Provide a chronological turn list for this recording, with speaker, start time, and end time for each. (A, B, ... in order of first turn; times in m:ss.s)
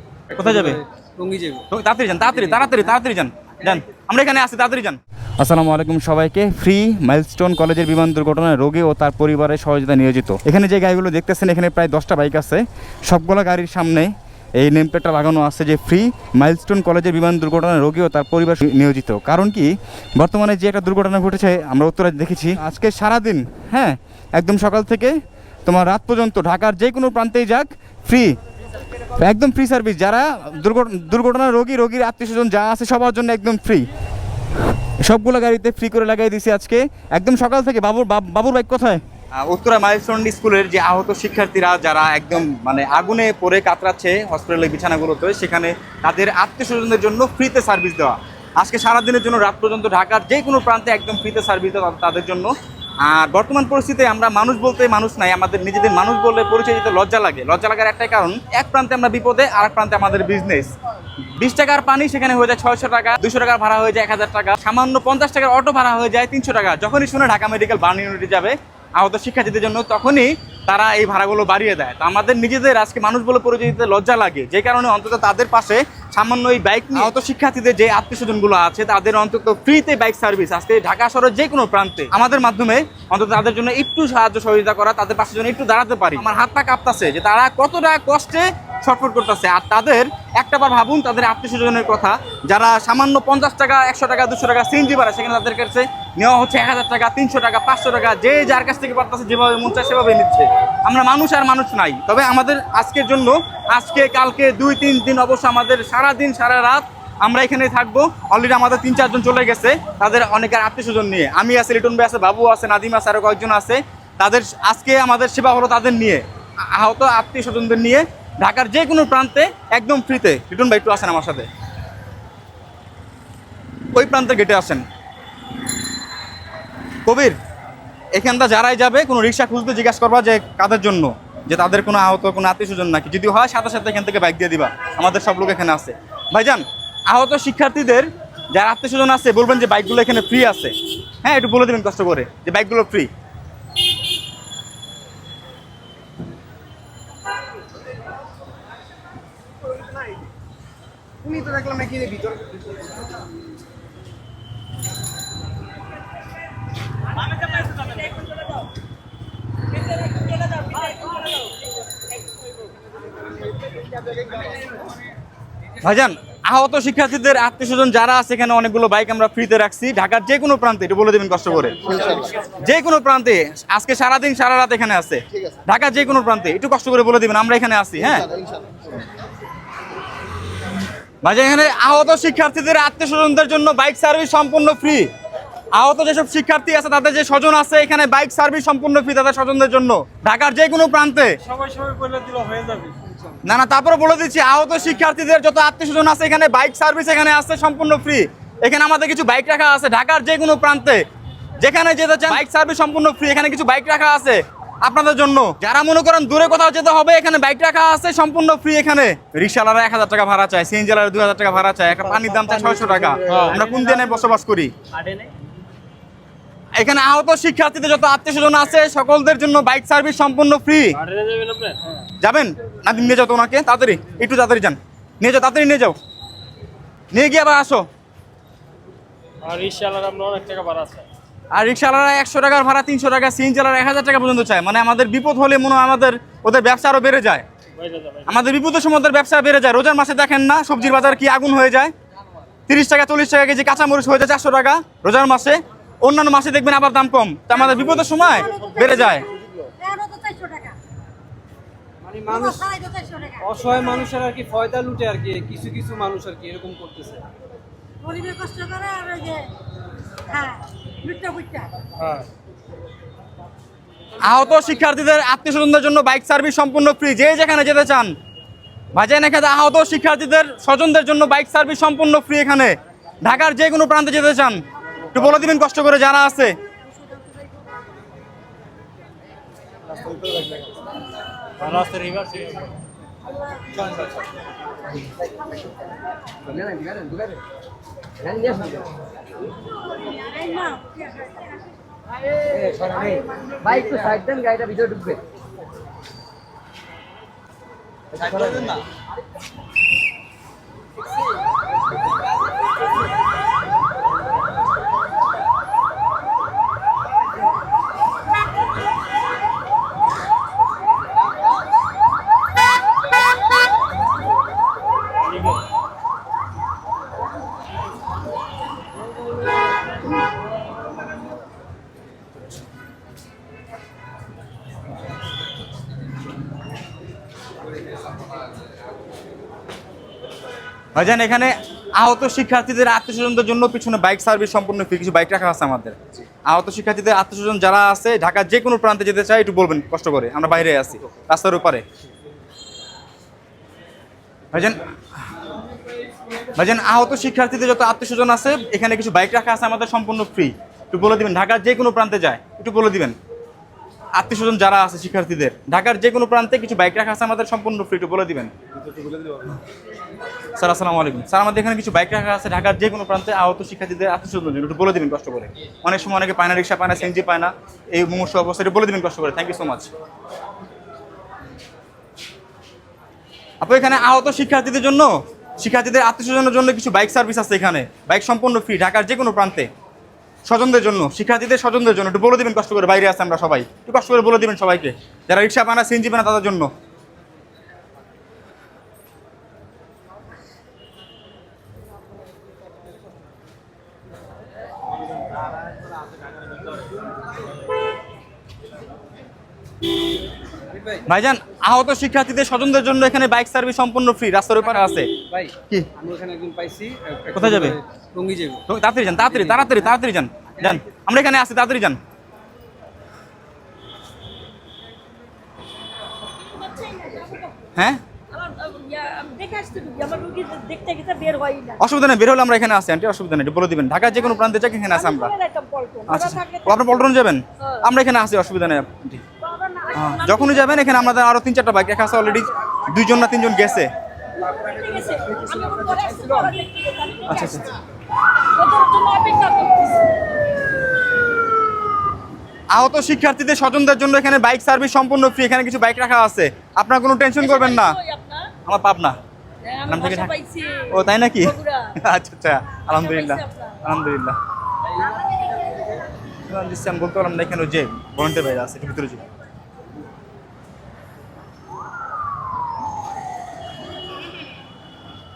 0:00.3-0:00.8 A
0:00.6-0:01.6 B
0:01.7-0:28.4 A
0:29.2-0:33.9 A
0:35.0-0:52.5 A
0:53.0-1:00.7 A
1:01.4-2:01.5 A
2:03.9-2:04.8 A
2:07.0-2:07.3 A
2:08.1-2:23.1 A
2:31.3-2:32.2 A
2:40.2-2:41.2 C
2:45.8-2:58.3 A
3:01.2-3:05.1 A
3:05.7-3:11.4 A
3:11.4-3:13.1 D
3:13.4-3:21.0 A
3:21.6-3:34.7 A
3:33.3-3:33.8 D
3:36.8-3:41.0 A
3:41.0-3:42.0 D
3:42.2-3:46.0 A
3:47.1-3:47.8 A
3:49.4-3:51.0 D
3:51.5-3:57.4 A
3:57.8-3:58.3 D
3:58.3-4:01.9 A
4:02.7-4:09.2 A
4:08.3-4:10.8 C
4:12.0-4:12.7 B
4:12.3-4:13.5 C
4:13.4-4:17.2 B
4:18.0-4:19.5 C
4:20.3-4:21.7 C
4:22.0-4:22.2 D
4:24.2-4:28.1 A
4:28.9-4:36.6 A
4:40.1-4:40.5 E
4:41.6-4:42.7 D
4:46.4-4:47.4 E
4:48.2-4:48.9 E
4:50.1-4:51.6 C
4:52.4-4:55.2 E
4:58.1-4:58.8 E
5:30.9-5:41.8 A
5:44.5-5:44.8 A
5:46.6-5:53.1 A
5:54.1-5:58.5 A
6:00.6-6:09.9 A
6:13.6-6:19.7 A
6:20.4-6:26.7 A
6:40.7-6:41.0 B
6:41.0-6:45.1 A
6:44.6-6:48.6 B
6:47.3-6:47.8 A
6:48.7-6:52.0 A
6:49.2-6:49.9 B
6:50.5-6:50.8 B
6:56.3-6:57.7 C
6:57.7-6:58.0 A
6:58.3-7:01.8 C
7:01.8-7:05.3 A
7:04.9-7:07.1 C
7:06.1-7:09.2 A
7:09.4-7:10.9 C
7:09.9-7:13.9 A
7:14.4-7:17.7 C
7:17.3-7:17.7 A
7:18.5-7:20.1 C
7:22.7-7:28.0 A
7:27.4-7:28.5 C
7:28.6-7:29.2 A
7:29.6-7:31.9 C
7:29.9-7:30.3 A
7:30.9-7:34.4 A
7:32.9-7:33.8 C
7:36.4-7:39.2 A